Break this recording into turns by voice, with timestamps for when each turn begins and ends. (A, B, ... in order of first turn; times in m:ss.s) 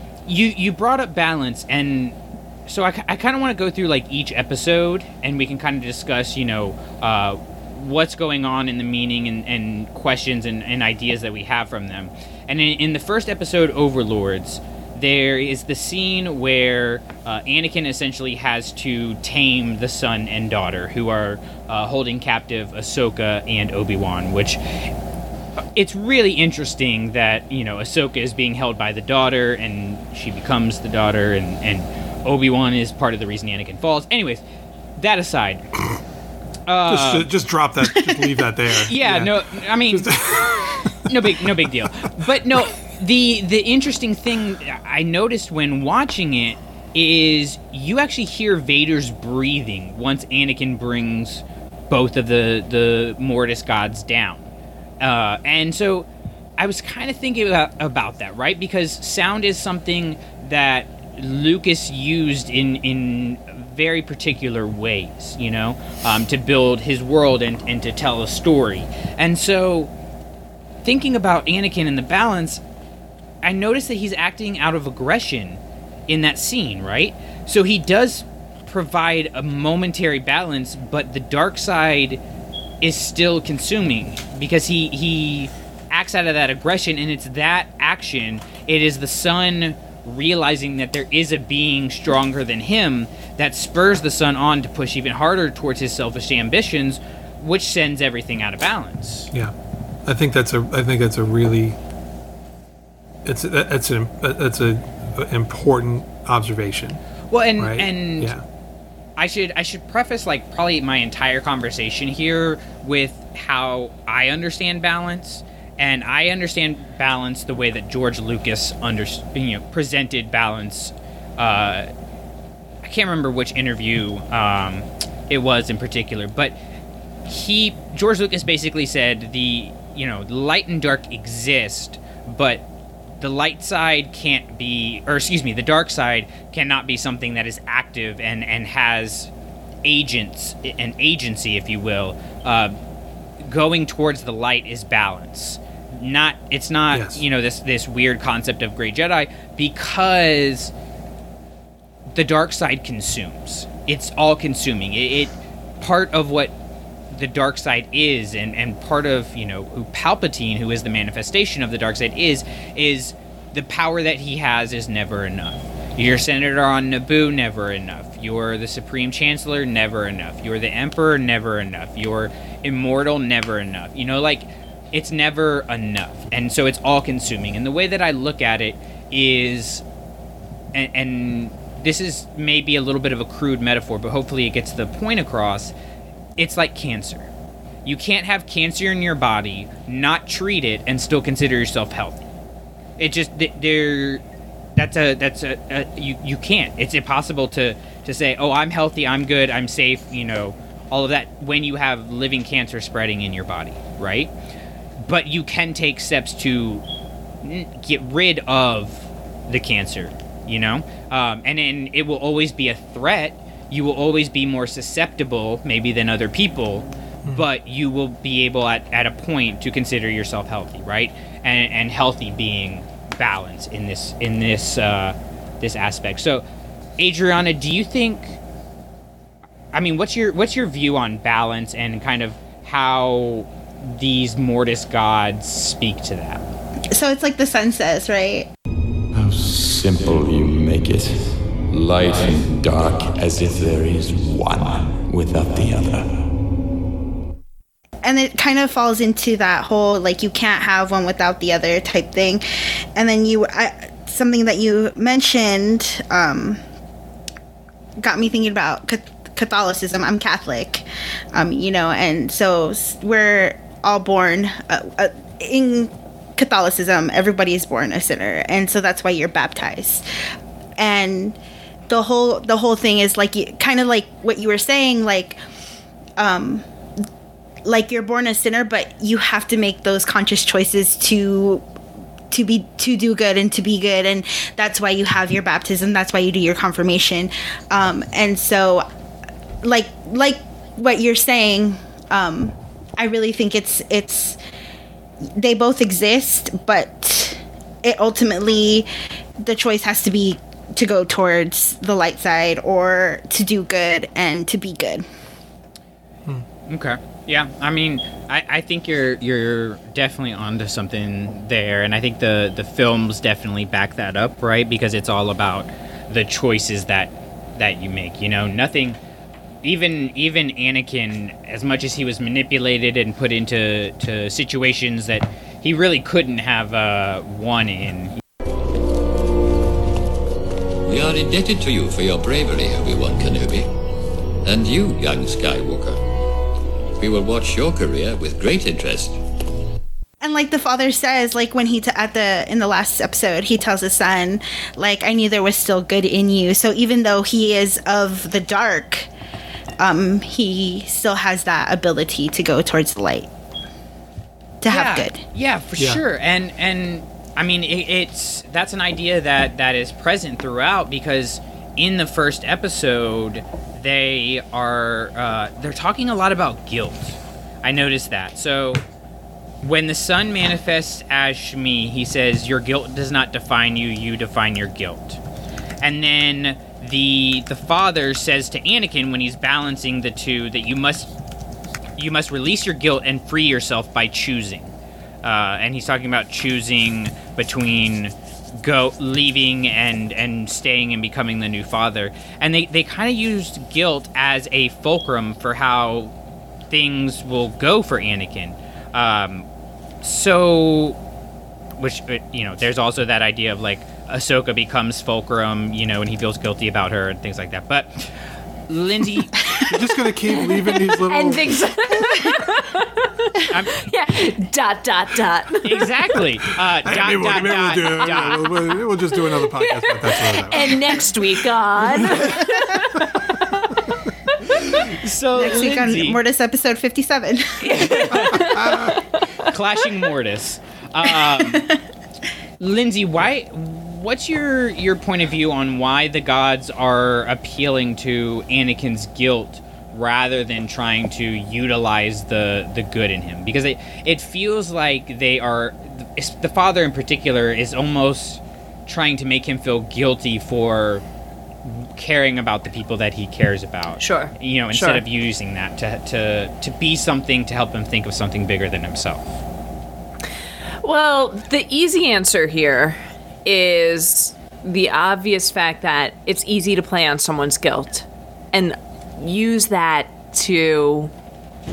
0:00.3-0:02.2 A
0:02.7-0:24.6 A
0:25.8-0:34.4 A
0:35.0-0:35.7 A
0:36.7-0:37.3 A
0:36.9-0:41.9 B
0:38.9-0:40.5 A
0:41.0-1:09.9 A
1:10.8-1:12.6 A
1:13.4-1:22.2 A
1:22.8-1:39.3 A
1:40.1-1:41.8 B
1:43.2-1:47.0 B
1:47.3-1:48.3 A
1:47.6-1:48.4 B
1:49.2-2:01.9 A
2:02.8-2:06.6 A
2:07.3-2:12.6 A
2:13.2-2:19.3 A
2:19.8-2:22.8 A
2:23.4-2:30.7 A
2:26.9-2:27.2 B
2:32.1-2:36.5 A
2:37.1-2:59.8 A
3:00.7-3:05.7 A
3:06.4-3:07.3 A
3:07.8-3:12.2 A
3:13.0-3:14.2 A
3:14.8-3:24.3 A
3:25.0-3:26.8 A
3:27.4-3:46.4 A
3:47.0-3:48.4 A
3:49.7-3:56.4 A
3:56.9-3:58.5 C
3:59.1-4:06.1 D
4:08.0-4:12.4 C
4:13.0-4:16.6 C
4:18.0-4:30.0 C
4:30.8-4:31.4 C
4:31.9-4:35.4 C
4:36.2-4:36.7 C
4:37.6-4:41.6 C
4:42.3-4:48.9 C
4:49.6-4:54.4 C
4:55.4-4:58.9 C
4:59.4-5:05.0 C
5:06.7-5:19.0 A
5:19.6-5:28.2 A
5:30.9-5:33.7 E
5:34.4-5:36.0 E
5:37.0-5:39.2 E
5:40.2-5:49.1 C
5:49.8-5:53.3 C
5:54.6-5:55.2 C
5:54.7-6:08.8 A
5:55.8-5:56.0 B
6:09.6-6:15.2 A
6:15.8-6:21.1 A
6:22.0-6:24.7 A
6:25.2-6:36.1 A
6:36.7-6:39.5 A
6:40.0-6:41.0 A
6:41.8-6:48.1 A
6:48.7-6:49.4 A
6:49.6-6:51.6 B
6:50.4-6:55.9 F
6:55.6-6:58.5 A
6:56.8-7:02.5 B
6:58.3-7:03.3 F
7:04.9-7:06.2 A
7:05.4-7:07.7 C
7:07.6-7:09.2 F
7:08.1-7:09.0 B
7:09.5-7:11.7 A
7:11.4-7:11.7 C
7:12.6-7:31.0 A
7:31.6-7:39.3 A
7:34.0-7:35.0 F
7:40.8-7:51.1 F